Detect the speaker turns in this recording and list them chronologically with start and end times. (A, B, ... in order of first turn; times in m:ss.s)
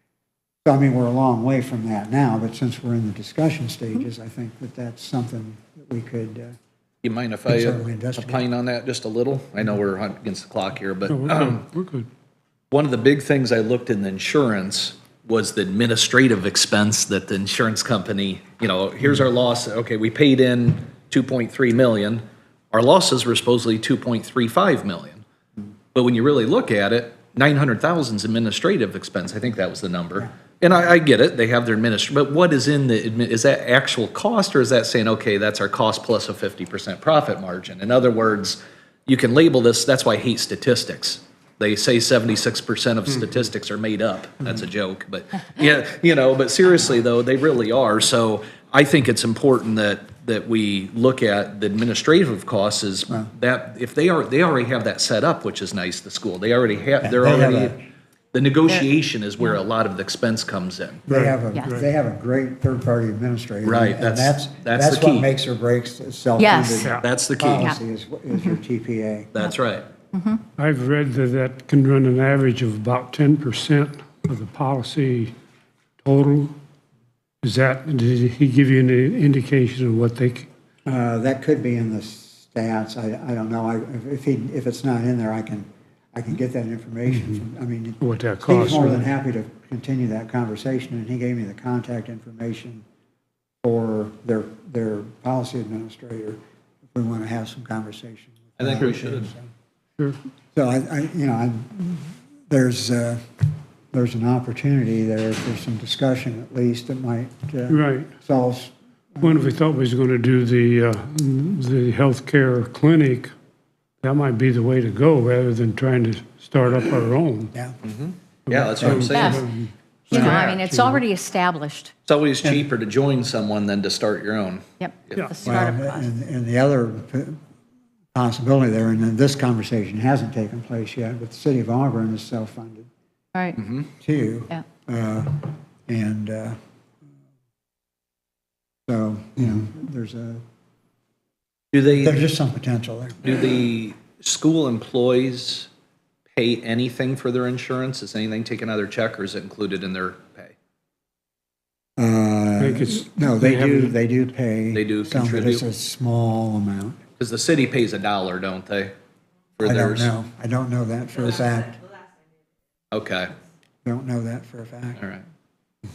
0:00.6-0:06.6 A
0:07.0-0:11.6 B
0:07.5-0:08.4 A
0:11.1-0:12.1 C
0:12.7-0:25.2 B
0:26.0-0:57.8 B
0:57.0-0:57.8 A
0:58.3-1:01.0 B
1:01.1-1:01.8 C
1:01.1-1:09.3 A
1:03.6-1:05.3 B
1:06.4-1:06.9 D
1:07.0-1:07.8 B
1:09.3-1:09.9 B
1:10.1-1:10.4 D
1:10.6-1:15.3 C
1:16.0-1:16.6 C
1:17.4-1:20.5 C
1:20.9-1:32.8 A
1:28.0-1:29.0 C
1:33.6-1:36.4 A
1:36.9-1:39.5 A
1:38.6-1:39.3 B
1:40.5-1:49.5 A
1:47.7-1:48.1 C
1:49.2-1:53.3 C
1:54.0-1:57.5 C
1:57.5-1:57.8 A
1:57.8-1:59.4 B
1:58.5-2:01.0 C
1:58.8-1:59.1 A
1:59.0-1:59.4 D
2:00.1-2:01.9 D
2:00.1-2:00.5 A
2:02.1-2:05.3 B
2:04.8-2:06.1 D
2:05.4-2:07.4 A
2:08.1-2:12.9 A
2:13.6-2:13.9 B
2:14.0-2:16.6 A
2:18.9-2:20.4 A
2:21.7-2:22.2 B
2:21.9-2:23.2 A
2:23.2-2:25.7 B
2:26.4-2:30.5 B
2:32.0-2:37.0 A
2:32.6-2:34.0 C
2:34.7-2:35.6 B
2:37.2-2:38.9 B
2:39.6-2:40.1 B
2:39.6-2:41.9 A
2:42.9-2:43.4 B
2:43.8-2:45.0 A
2:45.0-2:45.2 B